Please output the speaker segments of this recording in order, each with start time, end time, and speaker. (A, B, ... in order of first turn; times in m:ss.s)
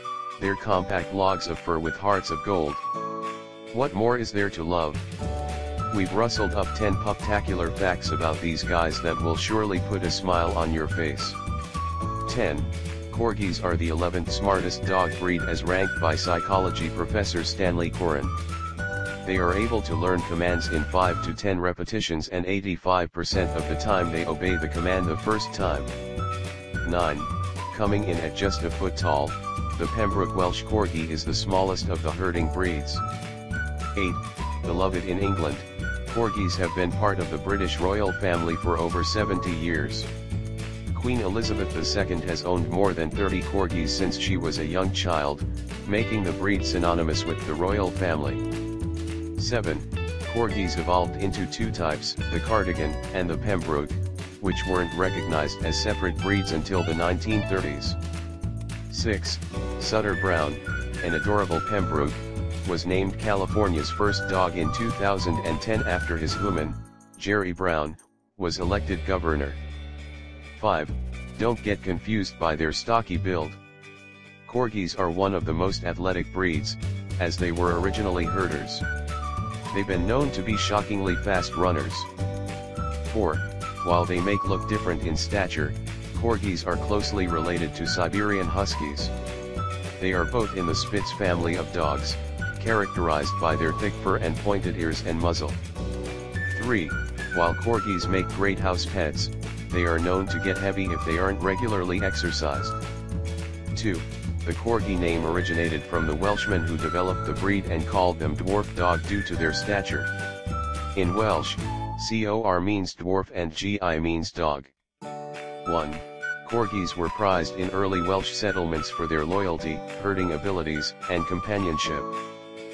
0:00.4-0:02.8 A
0:03.7-0:05.0 A
0:05.9-0:11.4 A
0:12.3-0:18.4 A
0:19.2-0:25.9 A
0:26.8-0:33.0 A
0:34.0-0:40.1 A
0:40.9-0:48.4 A
0:49.4-0:58.0 A
0:58.9-1:09.6 A
1:10.6-1:13.6 A
1:14.5-1:18.8 A
1:19.7-1:22.1 A
1:23.1-1:29.1 A
1:30.0-1:35.6 A
1:36.5-1:42.8 A
1:43.7-1:50.1 A
1:51.0-1:54.7 A
1:55.6-2:02.1 A